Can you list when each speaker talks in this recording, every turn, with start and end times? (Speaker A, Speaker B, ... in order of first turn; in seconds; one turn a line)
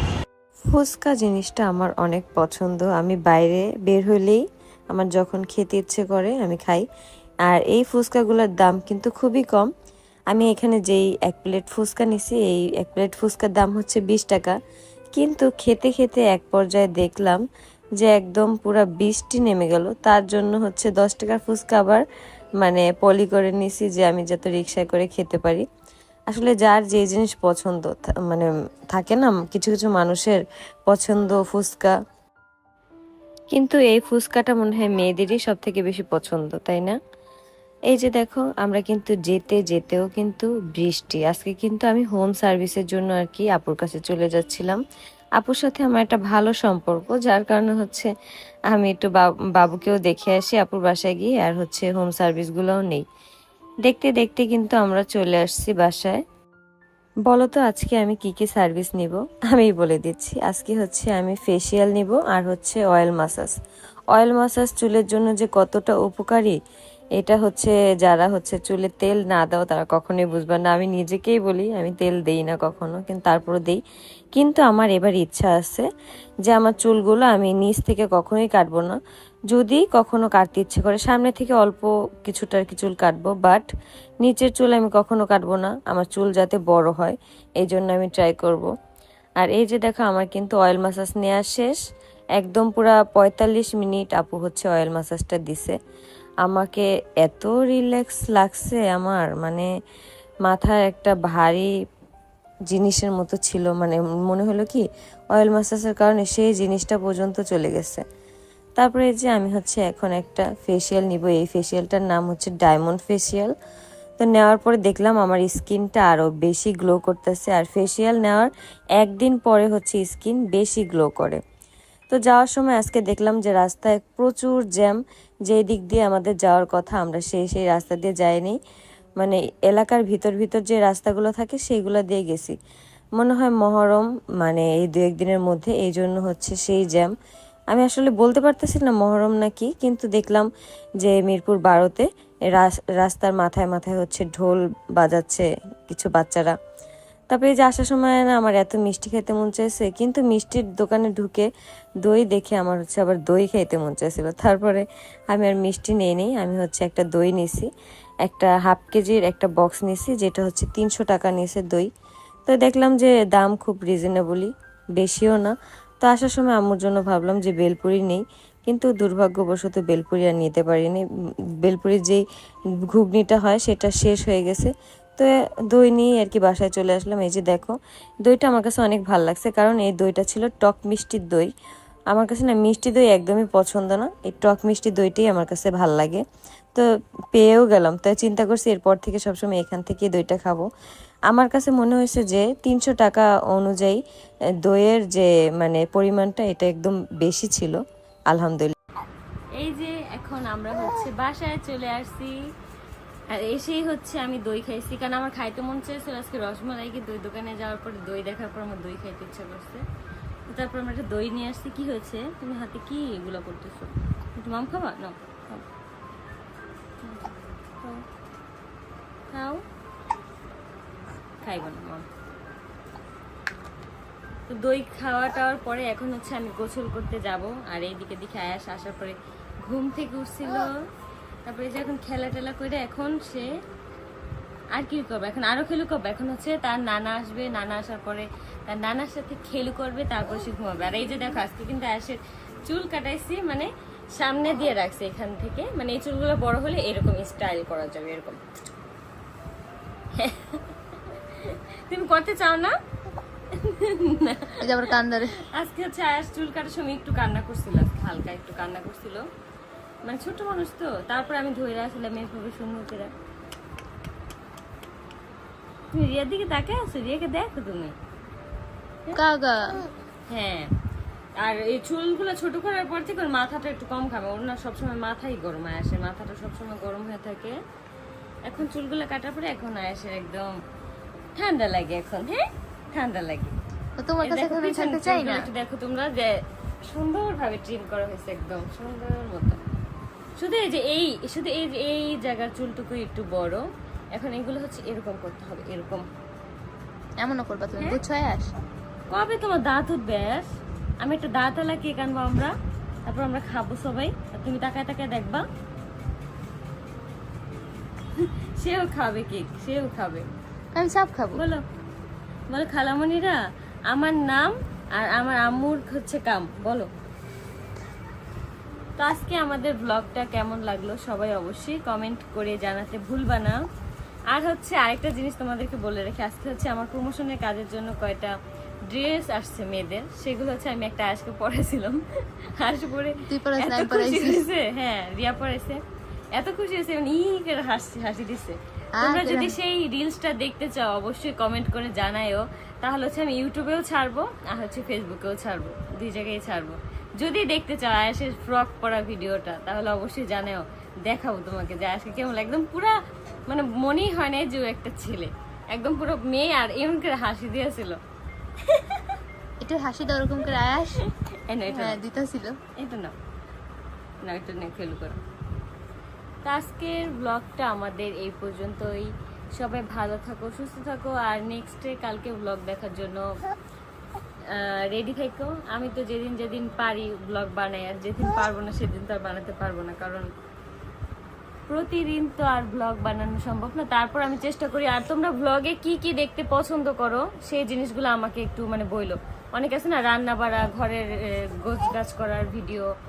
Speaker A: 0.7-6.8
Speaker A: 7.5-9.7
Speaker A: 10.3-14.6
Speaker A: 15.1-17.4
Speaker A: 18.0-22.0
Speaker A: 22.6-25.6
Speaker A: 26.3-31.9
Speaker A: 33.5-37.0
Speaker A: 37.9-44.8
Speaker A: 45.4-48.1
Speaker A: 48.7-53.0
Speaker A: 53.8-56.2
Speaker A: 57.3-63.6
Speaker A: 64.1-66.6
Speaker A: 67.2-73.8
Speaker A: 74.3-75.9
Speaker A: 76.5-79.0
Speaker A: 79.5-83.7
Speaker A: 84.2-88.7
Speaker A: 89.4-91.8
Speaker A: 92.4-95.8
Speaker A: 96.4-99.7
Speaker A: 100.5-101.7
Speaker A: 102.7-108.0
Speaker A: 108.8-113.5
Speaker A: 114.2-121.4
Speaker A: 122.1-128.6
Speaker A: 129.2-132.6
Speaker A: 133.2-137.1
Speaker A: 137.7-140.5
Speaker A: 141.0-146.6
Speaker A: 147.3-151.5
Speaker A: 152.0-157.7
Speaker A: 158.3-161.9
Speaker A: 162.5-171.0
Speaker A: 171.6-172.2
Speaker A: 172.9-181.5
Speaker A: 182.1-186.2
Speaker A: 186.8-190.7
Speaker A: 191.3-194.0
Speaker A: 194.6-197.8
Speaker A: 198.3-198.8
Speaker B: 199.6-202.4
Speaker B: 203.3-209.8
Speaker B: 210.5-215.6
Speaker B: 217.0-218.0
Speaker B: 219.3-219.6
Speaker B: 221.4-222.1
Speaker B: 224.5-230.7
Speaker B: 231.5-233.5
Speaker B: 234.8-248.4
Speaker B: 250.2-252.7
Speaker B: 253.5-255.0
Speaker C: 254.6-255.3
Speaker B: 255.5-259.2
Speaker B: 260.1-263.1
Speaker B: 265.9-267.9
Speaker C: 269.2-269.8
Speaker B: 270.3-270.7
Speaker B: 271.4-277.6
Speaker B: 278.5-280.5
Speaker B: 281.4-283.5
Speaker C: 284.0-285.5
Speaker B: 284.2-286.4
Speaker B: 286.9-289.6
Speaker B: 290.4-296.1
Speaker C: 297.2-298.5
Speaker B: 299.1-300.5
Speaker B: 301.0-302.5
Speaker B: 303.1-305.4
Speaker B: 308.1-310.3
Speaker C: 310.8-311.4
Speaker B: 311.3-311.6
Speaker B: 312.5-316.9
Speaker B: 319.0-323.6
Speaker B: 324.3-328.3
Speaker B: 328.9-332.0
Speaker B: 332.6-335.8
Speaker C: 333.3-334.4
Speaker B: 336.3-353.0
Speaker C: 339.0-339.6
Speaker B: 353.5-358.0
Speaker B: 358.6-359.2
Speaker C: 359.6-361.0
Speaker B: 361.5-362.0
Speaker C: 361.7-362.6
Speaker B: 362.8-363.1
Speaker B: 364.2-365.2
Speaker B: 366.4-373.3
Speaker B: 374.5-380.3
Speaker B: 381.7-392.9